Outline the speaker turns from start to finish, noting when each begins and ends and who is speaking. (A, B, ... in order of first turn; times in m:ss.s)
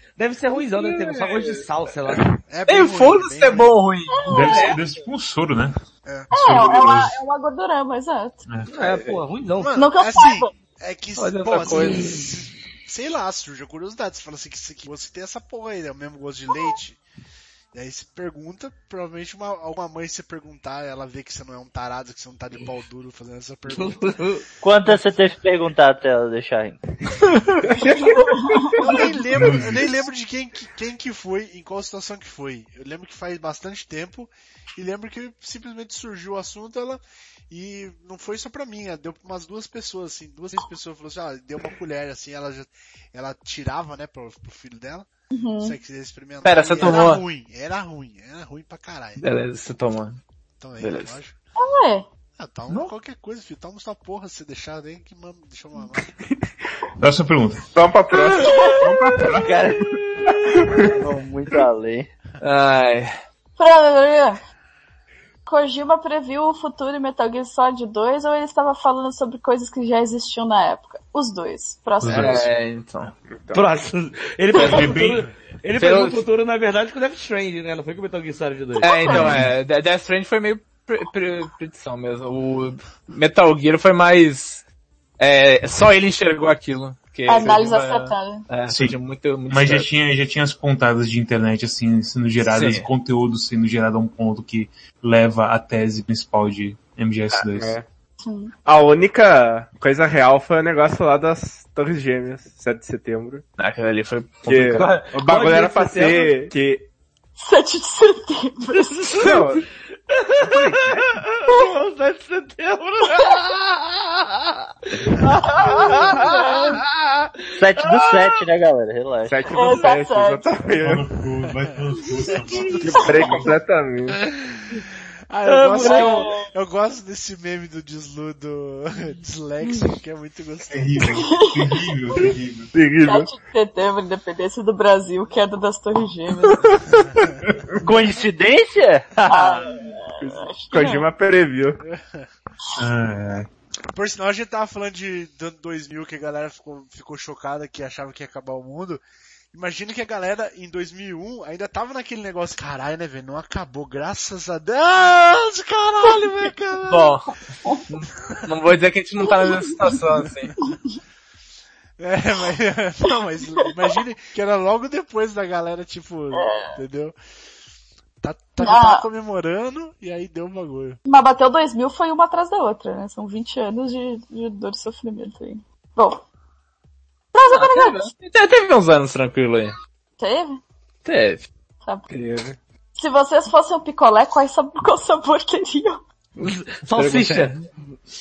0:00.2-0:02.3 A
0:00.7-0:04.8 B
0:02.5-0:03.7 C
0:04.1-0:04.8 D
0:04.3-0:05.8 E
0:06.0-0:06.3 C
0:06.3-0:07.2 E
0:06.3-0:08.4 D
0:08.7-0:09.7 A
0:08.8-0:09.2 B
0:09.6-0:17.0 C
0:09.7-0:10.5 D
0:11.2-0:12.1 B
0:17.7-0:24.2 C
0:23.8-0:24.4 A
0:24.6-0:26.8 F
0:28.0-0:29.1 D
0:28.8-0:45.1 C
0:29.3-0:29.9 E
0:45.3-0:45.7 D
0:45.6-0:49.2 C
0:46.4-0:47.2 B
0:49.2-0:50.2 B
0:50.6-0:51.3 C
0:50.8-0:51.2 B
0:51.6-0:52.0 D
0:52.4-0:56.1 C
0:57.0-0:57.6 E
0:57.7-0:59.4 G
0:58.4-0:58.9 D
0:58.8-0:59.5 E
1:00.4-1:01.0 G
1:00.9-1:02.1 F
1:02.4-1:03.1 B
1:03.6-1:04.4 D
1:05.4-1:12.4 D
1:12.0-1:12.5 E
1:12.1-1:13.1 B
1:13.3-1:13.6 G
1:13.5-1:18.8 A
1:14.5-1:15.3 E
1:15.8-1:16.2 B
1:18.8-1:24.6 B
1:18.8-1:19.4 D
1:19.1-1:19.5 E
1:25.2-1:29.9 B
1:27.3-1:28.5 D
1:28.7-1:29.0 E
1:29.5-1:37.8 E
1:32.4-1:32.9 B
1:37.6-1:37.8 G
1:38.2-1:38.5 D
1:38.6-1:43.4 G
1:43.6-1:45.0 B
1:44.4-1:46.8 G
1:44.7-1:46.4 A
1:47.4-1:49.2 D
1:49.1-1:49.6 G
1:50.1-1:54.3 A
1:55.0-1:58.3 A
1:56.1-1:56.8 D
1:57.6-1:59.4 F
1:59.2-2:01.1 G
1:59.5-2:00.6 D
2:00.8-2:03.6 E
2:02.7-2:04.2 G
2:03.0-2:03.3 D
2:05.3-2:11.2 C
2:05.4-2:06.3 A
2:05.8-2:06.5 D
2:10.7-2:12.7 E
2:11.1-2:11.8 D
2:12.7-2:13.3 G
2:13.0-2:16.7 D
2:17.0-2:17.3 C
2:17.8-2:19.7 F
2:19.2-2:21.1 D
2:20.2-2:21.8 G
2:21.8-2:22.2 C
2:22.8-2:23.5 E
2:23.9-2:29.0 C
2:29.5-2:37.2 C
2:36.9-2:37.3 B
2:37.9-2:40.5 B
2:40.2-2:40.5 C
2:40.6-2:40.9 D
2:42.0-2:47.1 C
2:46.3-2:46.8 D
2:48.2-2:51.0 C
2:48.6-2:49.0 D
2:51.0-2:56.2 D
2:57.3-2:58.1 D
2:57.5-2:59.7 B
3:00.2-3:00.6 D
3:01.0-3:01.5 B
3:02.1-3:02.5 G
3:03.0-3:06.0 D
3:06.4-3:07.5 A
3:06.4-3:07.6 B